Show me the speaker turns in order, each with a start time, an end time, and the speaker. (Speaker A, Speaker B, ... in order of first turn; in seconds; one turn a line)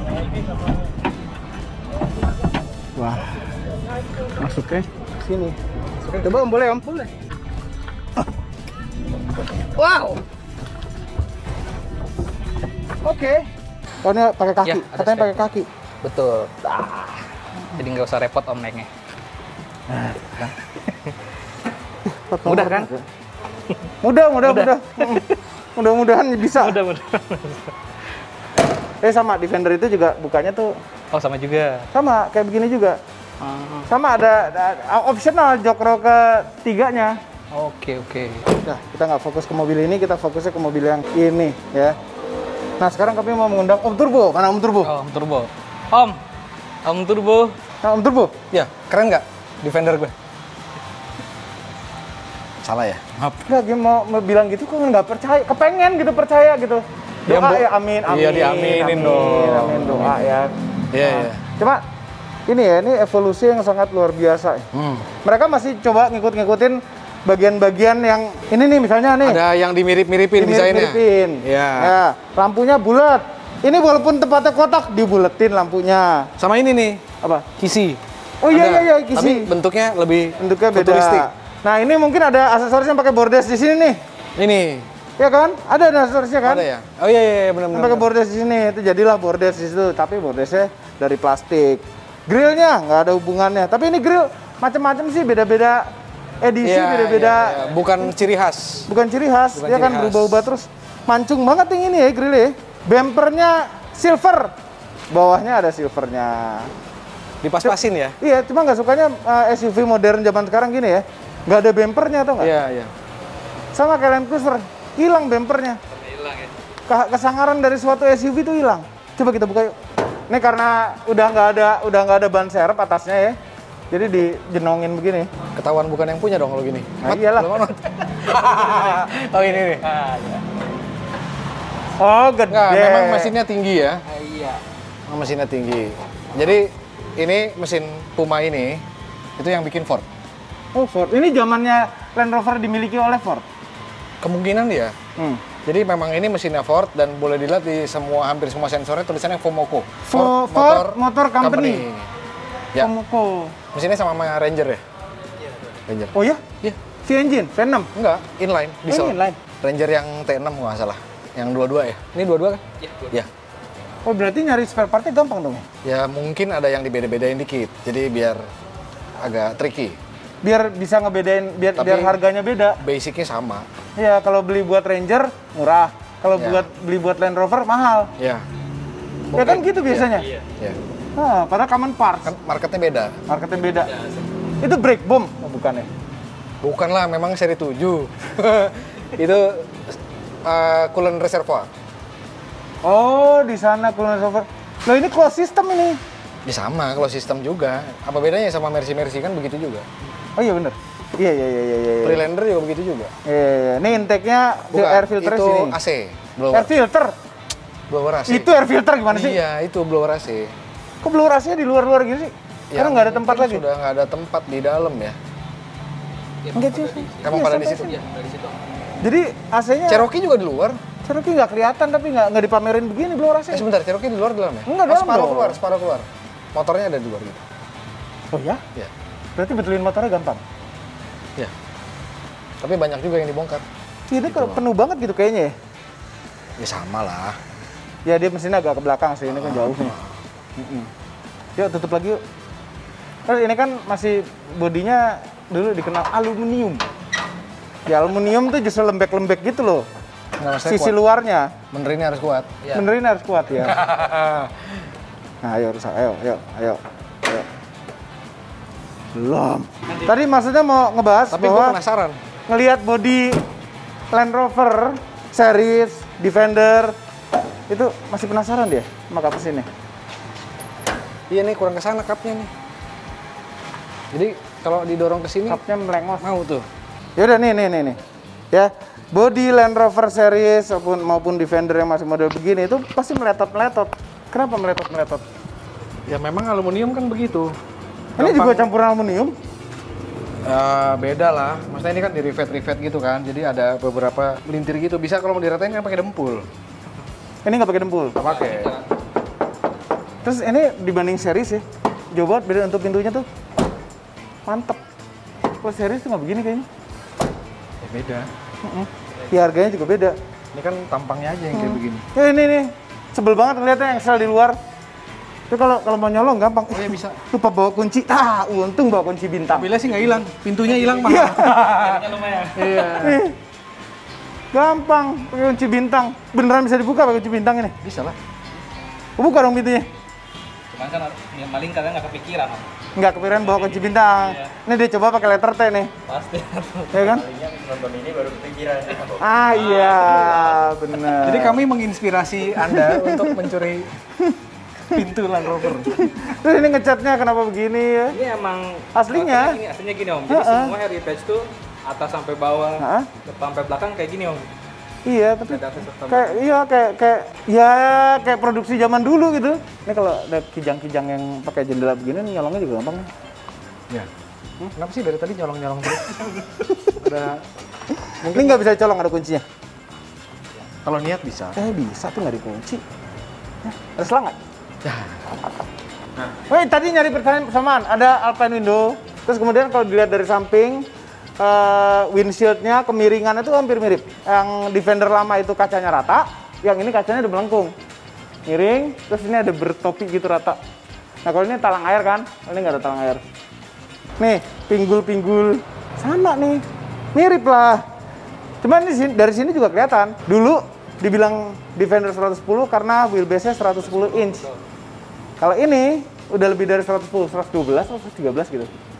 Speaker A: 3.0-3.4
Speaker A: 4.4-5.6
Speaker A: 6.1-7.1
Speaker A: 9.8-10.2
Speaker A: 13.0-13.5
Speaker A: 14.0-15.7
Speaker B: 14.6-15.4
Speaker B: 16.0-17.2
Speaker B: 17.7-18.9
Speaker A: 19.9-20.5
Speaker A: 22.1-23.0
Speaker B: 22.4-22.9
Speaker A: 24.0-25.2
Speaker B: 24.4-25.4
Speaker A: 25.8-26.8
Speaker B: 26.4-27.7
Speaker A: 29.0-30.7
Speaker B: 31.1-31.9
Speaker A: 31.9-33.0
Speaker B: 33.4-33.9
Speaker A: 33.9-37.2
Speaker B: 37.5-38.5
Speaker A: 38.6-42.0
Speaker A: 42.8-44.9
Speaker B: 44.8-46.2
Speaker B: 46.8-47.5
Speaker A: 47.8-48.3
Speaker C: 48.5-50.1
Speaker C: 52.6-53.4
Speaker A: 53.5-61.8
Speaker C: 57.3-60.3
Speaker C: 60.9-61.4
Speaker A: 62.5-64.7
Speaker C: 64.7-65.1
Speaker A: 65.2-69.4
Speaker C: 69.2-72.0
Speaker A: 70.3-76.3
Speaker C: 76.4-77.0
Speaker C: 77.6-81.3
Speaker A: 78.4-79.5
Speaker A: 80.4-84.0
Speaker C: 84.4-84.9
Speaker A: 85.2-86.7
Speaker C: 86.4-88.0
Speaker A: 87.7-95.9
Speaker A: 96.4-98.1
Speaker C: 96.6-98.9
Speaker A: 98.9-104.5
Speaker C: 99.5-100.5
Speaker A: 105.1-106.7
Speaker C: 107.4-108.1
Speaker A: 107.6-112.5
Speaker C: 112.4-112.9
Speaker A: 113.7-115.8
Speaker B: 115.9-116.5
Speaker A: 116.9-119.7
Speaker A: 120.3-123.4
Speaker A: 123.9-125.3
Speaker C: 125.5-129.8
Speaker A: 127.0-127.6
Speaker B: 128.4-130.4
Speaker A: 132.0-133.3
Speaker C: 132.5-134.0
Speaker B: 134.1-134.6
Speaker C: 135.1-138.8
Speaker C: 139.4-140.1
Speaker A: 140.7-143.4
Speaker C: 144.2-144.9
Speaker A: 145.2-145.4
Speaker C: 145.6-152.1
Speaker A: 150.0-151.8
Speaker A: 152.8-153.6
Speaker C: 153.7-154.8
Speaker C: 155.9-156.8
Speaker A: 156.1-156.4
Speaker A: 157.0-157.9
Speaker C: 157.9-163.3
Speaker A: 158.9-159.4
Speaker B: 162.8-163.2
Speaker A: 164.0-165.7
Speaker C: 165.8-168.4
Speaker C: 169.2-170.0
Speaker A: 170.4-172.8
Speaker C: 171.8-172.2
Speaker C: 172.8-173.7
Speaker A: 174.0-178.1
Speaker C: 176.4-176.7
Speaker C: 178.2-178.4
Speaker C: 179.3-180.8
Speaker A: 179.3-180.3
Speaker B: 180.1-180.4
Speaker A: 181.2-182.3
Speaker C: 182.2-183.2
Speaker A: 183.3-183.9
Speaker B: 183.7-184.3
Speaker A: 184.6-185.9
Speaker C: 186.6-191.7
Speaker A: 192.8-196.0
Speaker C: 196.4-199.8
Speaker A: 200.3-202.2
Speaker C: 202.0-203.1
Speaker A: 203.3-205.8
Speaker C: 204.7-206.7
Speaker A: 206.5-207.1
Speaker C: 207.9-208.5
Speaker A: 208.3-209.4
Speaker C: 209.1-210.5
Speaker A: 211.0-213.6
Speaker C: 212.7-215.2
Speaker B: 216.4-218.6
Speaker A: 216.5-217.9
Speaker C: 217.2-218.0
Speaker A: 219.0-220.1
Speaker C: 219.9-220.8
Speaker A: 221.0-223.6
Speaker C: 223.5-227.4
Speaker A: 224.7-225.6
Speaker A: 228.3-228.6
Speaker A: 229.3-230.4
Speaker C: 232.6-233.6
Speaker A: 234.1-235.5
Speaker C: 234.2-234.6
Speaker C: 236.6-237.4
Speaker A: 238.0-239.9
Speaker C: 239.3-240.2
Speaker A: 240.6-240.9
Speaker A: 241.6-242.2
Speaker A: 243.3-246.8
Speaker A: 247.9-249.8
Speaker C: 250.4-250.9
Speaker A: 250.6-251.5
Speaker C: 251.7-252.5
Speaker A: 252.7-253.8
Speaker C: 253.6-254.8
Speaker A: 255.4-257.4
Speaker A: 259.1-261.8
Speaker C: 261.3-262.2
Speaker A: 262.5-263.4
Speaker A: 264.1-266.9
Speaker A: 267.7-269.7
Speaker C: 271.3-272.5
Speaker C: 274.1-275.6
Speaker A: 275.5-276.3
Speaker C: 276.2-276.7
Speaker A: 277.2-278.0
Speaker A: 278.5-285.2
Speaker C: 286.1-287.6
Speaker A: 288.2-289.3
Speaker C: 288.2-288.7
Speaker C: 290.4-296.5
Speaker A: 297.4-298.2
Speaker C: 298.2-298.7
Speaker B: 298.2-298.9
Speaker A: 300.2-303.2
Speaker A: 304.5-304.8
Speaker A: 305.6-306.7
Speaker C: 307.8-308.3
Speaker A: 308.6-310.1
Speaker C: 310.5-312.0
Speaker A: 311.5-314.6
Speaker A: 315.5-319.7
Speaker C: 316.7-317.2
Speaker C: 319.5-323.2
Speaker B: 320.6-323.2
Speaker A: 321.0-321.7
Speaker A: 323.0-323.3
Speaker A: 324.5-327.8
Speaker C: 327.8-328.2
Speaker A: 329.2-329.9
Speaker B: 330.7-332.7
Speaker A: 332.9-335.9
Speaker B: 333.2-334.5
Speaker B: 336.1-337.2
Speaker A: 336.9-337.3
Speaker B: 338.6-339.0
Speaker A: 339.2-341.6
Speaker B: 339.6-340.4
Speaker C: 341.2-343.9
Speaker A: 342.6-343.5
Speaker C: 344.9-346.1
Speaker A: 345.8-348.1
Speaker B: 348.1-354.5
Speaker A: 348.9-349.6
Speaker A: 350.3-350.7
Speaker A: 352.8-353.1
Speaker A: 355.1-363.1
Speaker B: 355.5-356.4
Speaker C: 364.7-366.4
Speaker C: 366.9-367.4
Speaker A: 368.0-369.4
Speaker C: 368.2-368.6
Speaker C: 370.8-371.6
Speaker A: 371.6-372.8
Speaker A: 373.6-374.4
Speaker C: 374.8-375.2
Speaker A: 376.5-380.9
Speaker A: 381.4-387.7
Speaker A: 388.5-390.6
Speaker A: 391.2-393.2
Speaker A: 394.2-397.8
Speaker A: 398.6-404.4
Speaker B: 403.8-404.6
Speaker A: 405.4-408.7